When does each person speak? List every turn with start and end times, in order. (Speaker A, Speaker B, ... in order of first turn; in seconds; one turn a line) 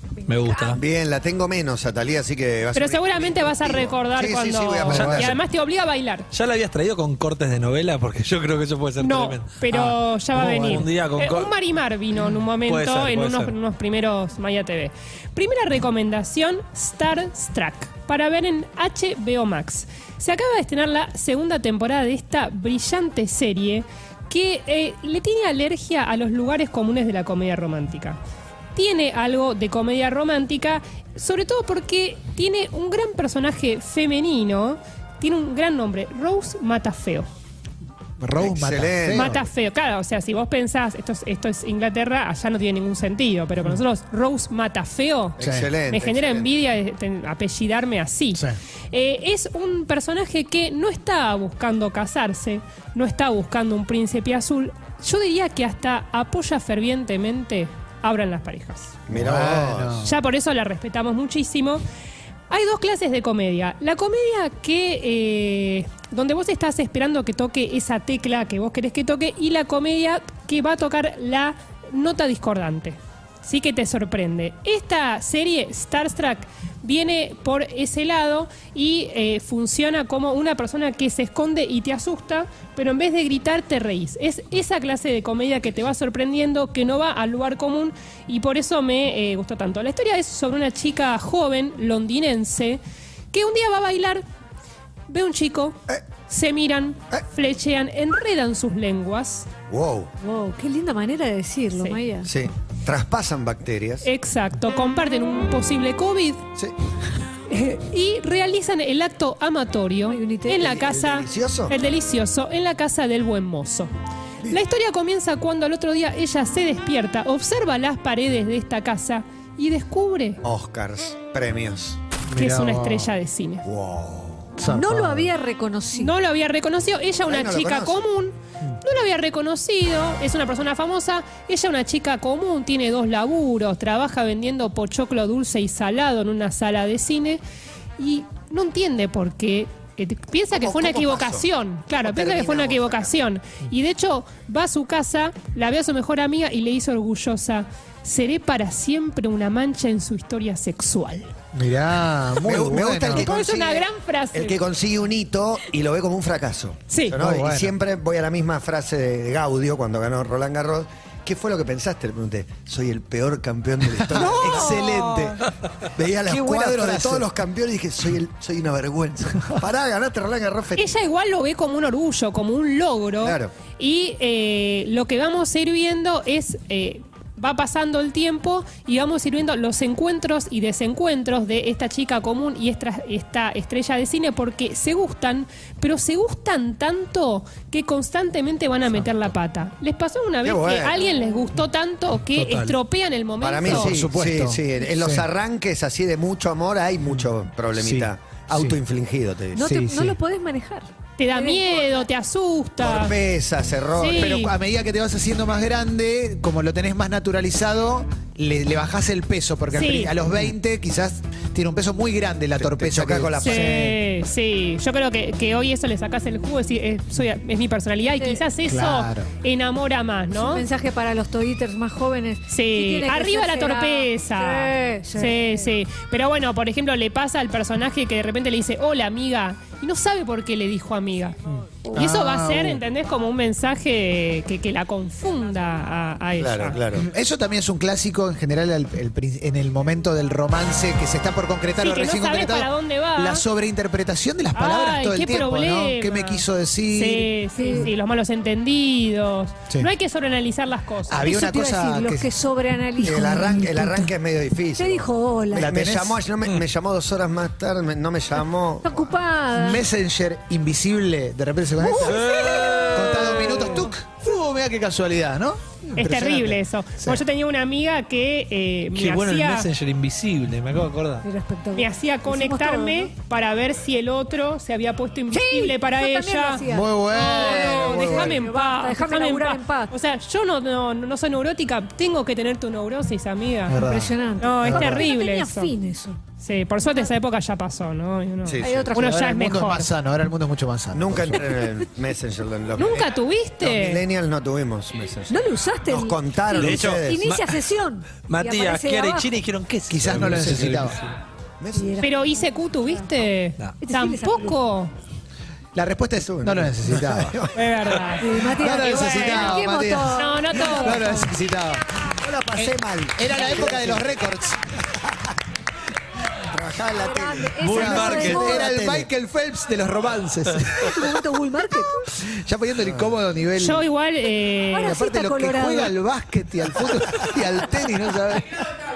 Speaker A: 0.2-0.8
Speaker B: 0.7-5.4
Speaker C: 2.8-6.3
Speaker A: 4.9-5.2
Speaker A: 6.3-11.5
Speaker C: 9.0-28.2
Speaker A: 12.7-13.5
Speaker C: 28.7-37.2
Speaker D: 38.2-39.4
Speaker B: 38.4-39.4
Speaker C: 39.1-45.4
Speaker B: 45.4-46.5
Speaker D: 45.4-45.7
Speaker C: 45.9-58.9
Speaker B: 59.1-60.0
Speaker D: 59.1-60.1
Speaker C: 60.0-61.8
Speaker C: 62.5-92.8
Speaker C: 93.3-94.2
Speaker C: 95.1-95.8
Speaker C: 96.3-99.5
Speaker B: 99.7-100.1
Speaker E: 100.2-102.3
Speaker B: 102.2-104.0
Speaker C: 104.0-106.4
Speaker C: 107.5-113.9
Speaker E: 110.1-110.7
Speaker B: 110.5-111.7
Speaker C: 114.5-120.4
Speaker B: 120.4-122.0
Speaker D: 122.3-123.1
Speaker C: 122.3-123.6
Speaker B: 123.6-124.5
Speaker D: 124.6-125.3
Speaker E: 124.7-126.1
Speaker C: 125.9-137.4
Speaker B: 127.3-128.0
Speaker C: 138.0-151.3
Speaker B: 140.5-143.1
Speaker D: 151.5-153.7
Speaker B: 152.4-164.7
Speaker C: 153.1-154.6
Speaker C: 156.9-157.2
Speaker D: 157.1-157.7
Speaker D: 164.1-165.5
Speaker C: 164.2-165.3
Speaker B: 165.9-170.9
Speaker D: 166.2-167.3
Speaker C: 170.8-194.0
Speaker B: 173.2-173.5
Speaker B: 190.4-191.0
Speaker E: 191.1-191.3
Speaker A: 192.3-192.7
Speaker B: 193.4-199.7
Speaker D: 193.6-195.2
Speaker D: 197.7-198.8
Speaker E: 199.5-202.1
Speaker D: 199.6-200.2
Speaker C: 201.2-203.1
Speaker B: 202.8-204.4
Speaker C: 203.9-204.5
Speaker D: 204.2-214.0
Speaker C: 209.7-210.1
Speaker B: 212.6-213.9
Speaker C: 213.4-220.6
Speaker E: 218.2-218.4
Speaker D: 218.7-219.3
Speaker E: 220.3-225.7
Speaker C: 222.5-231.4
Speaker C: 231.9-236.8
Speaker D: 231.9-232.8
Speaker B: 236.4-237.1
Speaker D: 236.9-247.3
Speaker C: 241.8-243.4
Speaker C: 244.5-251.3
Speaker E: 247.6-247.9
Speaker D: 251.1-252.3
Speaker E: 251.2-254.1
Speaker B: 253.0-259.1
Speaker E: 254.8-255.7
Speaker D: 255.5-256.2
Speaker E: 258.8-259.8
Speaker D: 259.5-262.2
Speaker E: 261.8-263.9
Speaker A: 262.0-263.6
Speaker D: 262.9-267.2
Speaker C: 266.0-269.7
Speaker A: 268.9-271.2
Speaker E: 271.2-273.1
Speaker C: 271.7-283.8
Speaker E: 275.3-279.9
Speaker D: 276.7-278.4
Speaker D: 283.7-285.0
Speaker E: 283.8-286.2
Speaker C: 284.4-285.7
Speaker C: 286.4-289.9
Speaker B: 288.4-288.9
Speaker E: 288.6-289.1
Speaker D: 288.9-291.6
Speaker B: 290.9-297.3
Speaker C: 292.8-294.0
Speaker E: 295.3-299.3
Speaker A: 296.5-297.6
Speaker A: 298.1-301.1
Speaker D: 299.9-301.0
Speaker B: 301.6-302.0
Speaker E: 301.7-302.5
Speaker C: 302.0-304.9
Speaker E: 303.8-304.5
Speaker D: 305.7-307.4
Speaker B: 306.2-307.6
Speaker C: 307.5-309.6
Speaker E: 308.2-311.3
Speaker D: 308.5-311.9
Speaker C: 310.1-311.2
Speaker B: 312.1-314.3
Speaker D: 312.6-314.6
Speaker B: 314.9-315.2
Speaker B: 316.5-319.1
Speaker E: 317.0-318.7
Speaker A: 317.6-318.5
Speaker D: 317.7-321.1
Speaker E: 320.9-322.0
Speaker D: 322.1-323.8
Speaker B: 322.8-323.1
Speaker C: 323.6-324.9
Speaker E: 324.7-325.9
Speaker D: 324.8-328.6